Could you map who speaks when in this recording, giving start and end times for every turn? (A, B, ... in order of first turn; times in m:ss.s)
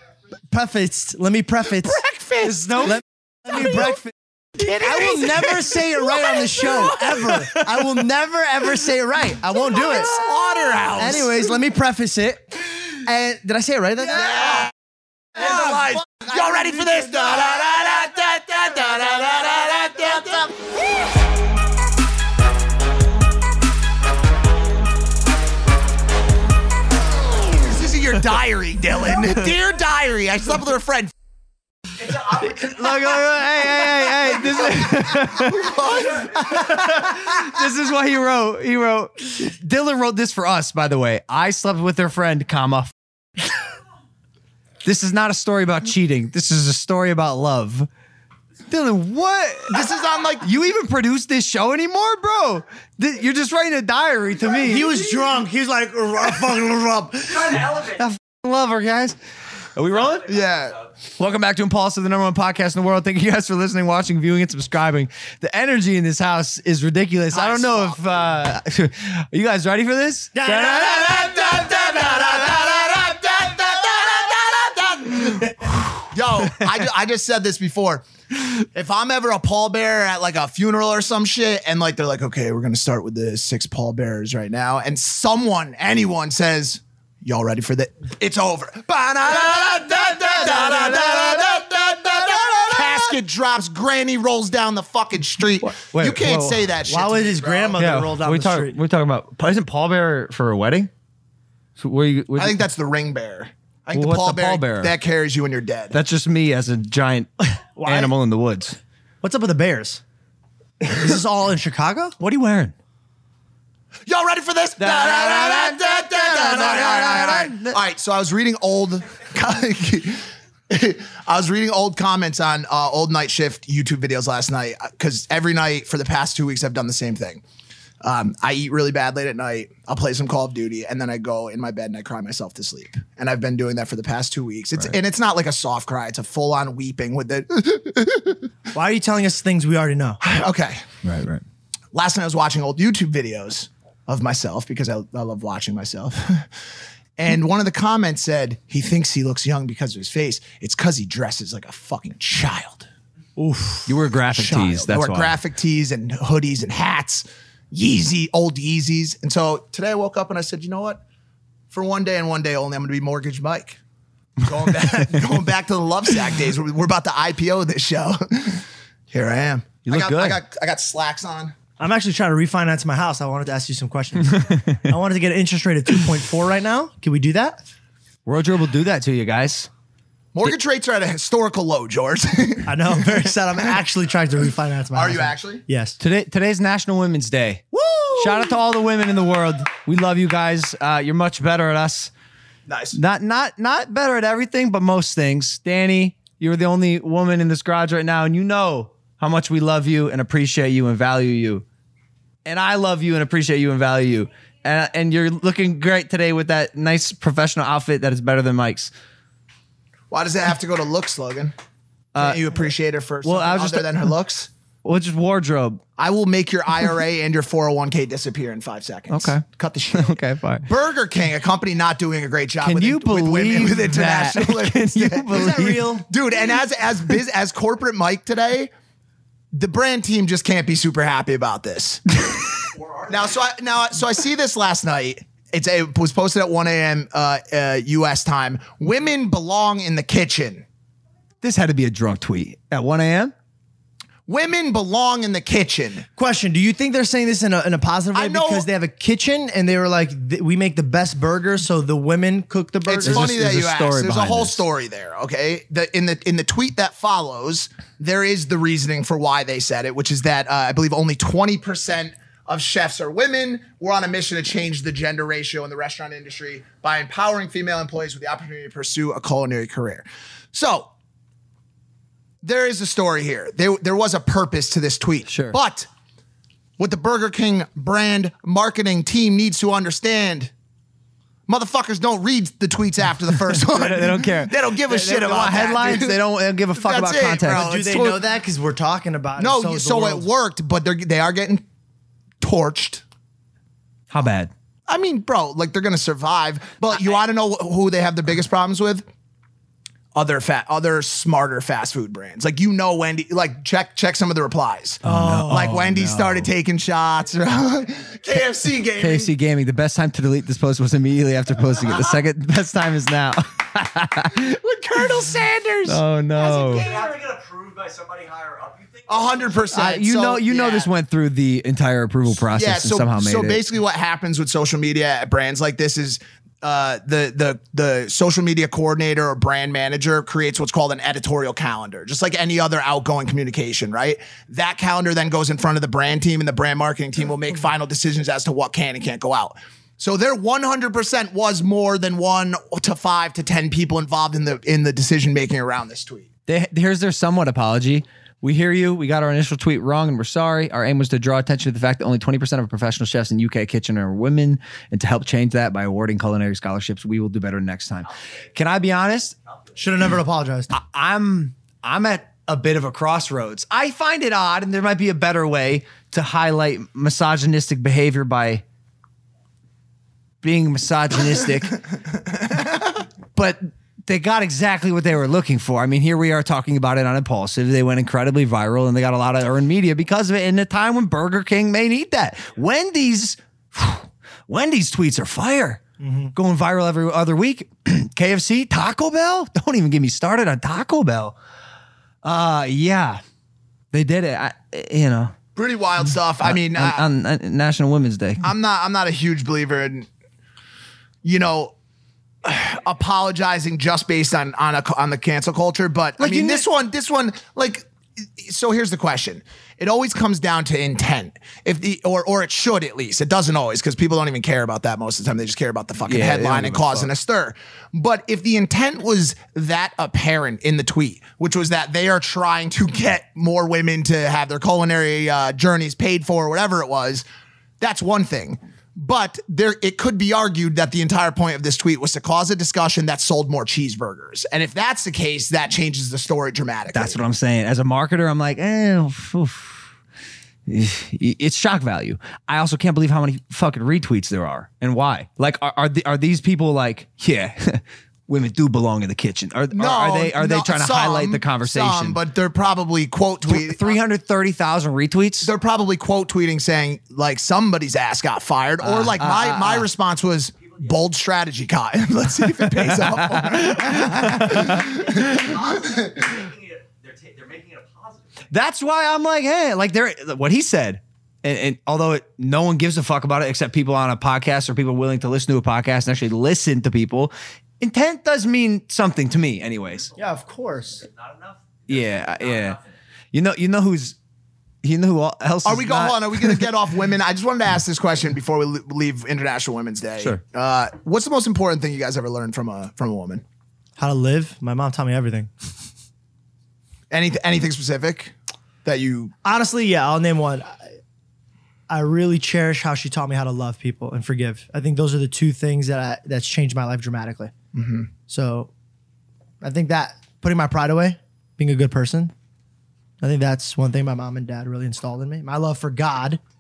0:00.5-0:02.0 A
0:02.0-0:02.8 B
0:02.4-0:04.1 C
0:02.8-0:04.0 A
0:04.8-0:10.2 A
0:07.3-0:07.8 C
0:09.6-0:11.6 B
0:11.0-0:12.5 A
0:13.0-0:14.6 A
0:14.1-0:14.7 B
0:15.3-0:20.6 B
0:27.5-0:31.1 B
0:32.1-0:35.8 C
0:35.4-0:36.6 B
0:36.3-0:42.9 C
0:44.8-0:47.9 C
0:48.7-0:49.8 C
0:49.7-0:50.5 B
0:50.4-0:55.0 C
0:54.6-0:57.6 A
0:57.5-0:59.2 C
0:57.6-0:57.9 D
0:59.8-1:00.3 C
1:00.1-1:00.7 D
1:00.3-1:00.8 B
1:01.2-1:11.2 C
1:07.3-1:08.0 B
1:10.3-1:10.8 A
1:10.7-1:37.8 B
1:30.4-1:31.2 C
1:35.6-1:36.7 C
1:36.9-1:38.8 A
1:37.8-1:40.9 C
1:41.8-1:42.6 C
1:42.4-1:46.0 B
1:43.9-1:44.9 C
1:45.9-1:48.8 C
1:47.8-1:48.1 A
1:49.2-1:50.0 A
1:50.8-1:52.2 A
1:52.2-1:52.7 C
1:54.1-2:07.4 B
1:54.8-1:57.8 C
2:08.0-2:18.5 B
2:18.7-2:20.2 A
2:20.2-2:20.9 B
2:21.0-2:21.4 C
2:21.9-2:26.5 B
2:27.2-2:32.9 B
2:33.4-2:33.9 A
2:33.9-2:35.4 C
2:34.3-2:41.0 B
2:41.7-2:43.8 B
2:44.4-2:51.6 B
2:49.9-2:50.4 C
2:51.8-2:57.6 A
2:54.5-2:54.8 C
2:58.3-2:59.7 C
3:00.3-3:03.8 B
3:02.7-3:06.0 A
3:04.9-3:05.6 B
3:06.0-3:12.1 C
3:07.8-3:08.3 A
3:12.7-3:13.0 B
3:12.9-3:21.6 C
3:22.5-3:28.9 C
3:30.1-3:31.5 B
3:32.2-3:32.4 C
3:32.2-3:34.5 B
3:33.2-3:34.1 C
3:34.8-3:35.8 C
3:36.0-3:48.7 B
3:39.1-3:39.4 C
3:39.9-3:40.7 C
3:42.6-3:46.0 C
3:45.3-3:46.1 A
3:49.5-3:52.4 B
3:52.7-3:53.4 D
3:53.1-4:00.6 B
4:01.4-4:03.3 C
4:04.3-4:06.1 B
4:06.2-4:13.3 A
4:08.1-4:08.7 B
4:12.9-4:30.9 B
4:13.0-4:14.6 C
4:32.4-4:35.9 B
4:35.3-4:35.6 C
4:36.8-4:40.5 B
4:41.5-4:48.2 B
4:43.4-4:48.2 C
4:47.5-4:50.3 A
4:49.4-4:51.6 B
4:52.4-4:53.0 B
4:54.1-4:54.5 C
4:54.9-4:59.0 B
5:00.1-5:09.3 B
5:05.0-5:06.5 C
5:05.1-5:05.4 A
5:09.0-5:14.6 C
5:14.4-5:17.1 B
5:15.8-5:16.9 C
5:16.4-5:19.8 D
5:19.1-5:20.9 B
5:19.7-5:23.6 C
5:22.5-5:46.3 B
5:46.5-5:59.4 C
5:59.8-6:00.7 A
6:00.7-6:08.6 C
6:10.4-6:11.9 C
6:12.5-6:13.0 B
6:13.3-6:25.8 C
6:26.0-6:26.4 A
6:26.4-6:31.4 C
6:32.2-6:33.2 C
6:33.9-6:35.3 C
6:35.6-6:37.0 B
6:36.4-6:38.5 C
6:38.4-6:40.1 B
6:41.2-6:41.8 B
6:42.4-7:07.2 B
6:46.2-6:46.6 C
6:56.1-6:57.1 C
7:07.8-7:17.2 B
7:16.9-7:19.8 C
7:20.7-7:32.2 C
7:29.7-7:34.0 B
7:33.4-7:35.5 C
7:35.4-7:45.5 B
7:38.8-7:39.9 C
7:40.6-7:41.0 D
7:42.7-7:44.9 C
7:44.8-7:48.5 D
7:48.5-8:00.1 C
8:00.2-8:01.0 A
8:00.8-8:02.9 D
8:01.9-8:02.8 C
8:03.3-8:04.2 C
8:04.8-8:06.7 C
8:05.6-8:13.4 B
8:14.0-8:15.5 A
8:17.1-8:18.3 B
8:18.8-8:19.3 B
8:19.4-8:20.8 A
8:21.9-8:27.5 A
8:27.7-8:28.1 B
8:28.3-8:28.7 A
8:29.6-8:32.3 A
8:33.2-8:36.4 A